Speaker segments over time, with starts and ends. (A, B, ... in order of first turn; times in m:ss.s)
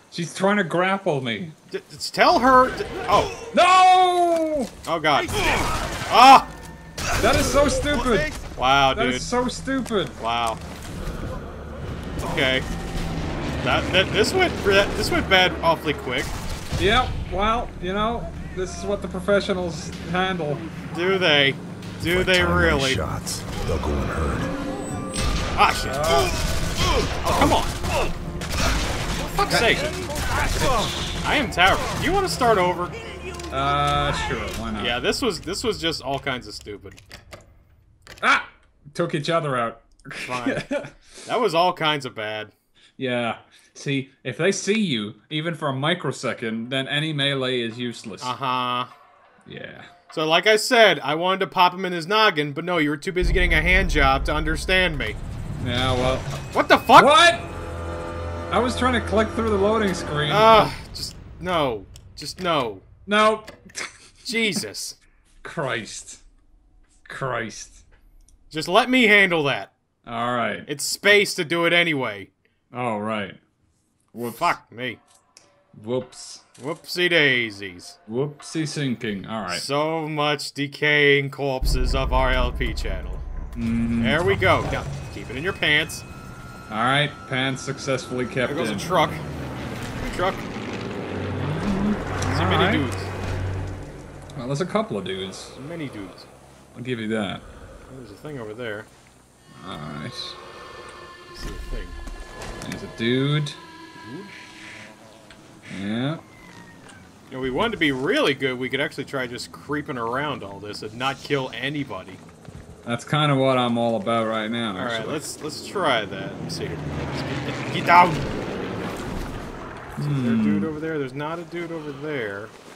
0:00.1-0:01.5 A
0:01.7-0:03.3 B
0:03.5-0:04.7 A
0:04.8-0:05.5 B
0:06.1-0:06.5 B
0:07.2-0:08.3 A
0:08.5-0:09.3 B
0:08.9-0:10.2 A
0:10.2-0:10.6 B
0:12.2-0:12.7 B
0:13.6-0:16.3 B
0:16.8-0:20.7 A
0:20.9-0:23.0 B
0:22.0-0:24.5 C
0:25.5-0:26.3 B
0:25.8-0:26.3 A
0:27.2-0:27.8 B
0:29.3-0:29.9 B
0:29.5-0:30.0 A
0:30.5-0:31.0 A
0:31.2-0:32.9 B
0:33.5-0:35.0 A
0:34.8-0:37.0 B
0:38.2-0:40.9 A
0:40.2-0:40.7 B
0:41.2-0:42.5 B
0:43.0-0:48.3 A
0:48.2-0:48.9 B
0:49.4-0:49.9 A
0:50.1-0:55.2 B
0:55.6-0:56.4 A
0:56.5-0:57.1 B
0:56.9-0:57.5 A
0:58.5-1:00.7 A
1:00.3-1:02.8 B
1:03.0-1:04.4 A
1:04.2-1:05.0 B
1:05.4-1:06.2 A
1:07.0-1:07.8 A
1:08.5-1:09.7 B
1:10.0-1:10.7 A
1:10.6-1:12.3 B
1:12.7-1:13.4 A
1:14.1-1:14.6 A
1:14.4-1:15.0 B
1:15.7-1:16.4 A
1:16.6-1:18.0 B
1:18.1-1:19.6 A
1:19.5-1:23.2 B
1:23.5-1:24.4 A
1:24.0-1:26.0 B
1:26.7-1:28.9 A
1:28.4-1:29.2 B
1:30.0-1:30.4 B
1:31.3-1:32.8 A
1:32.2-1:33.1 B
1:34.4-1:35.5 A
1:35.5-1:36.3 B
1:36.7-1:37.4 A
1:37.9-1:38.9 B
1:39.5-1:40.4 A
1:41.3-1:42.0 B
1:42.6-1:43.6 A
1:43.9-1:44.3 B
1:45.7-1:46.2 A
1:47.3-1:52.2 B
1:52.8-1:55.2 A
1:54.7-1:58.3 B
2:00.0-2:00.7 A
2:00.0-2:02.5 B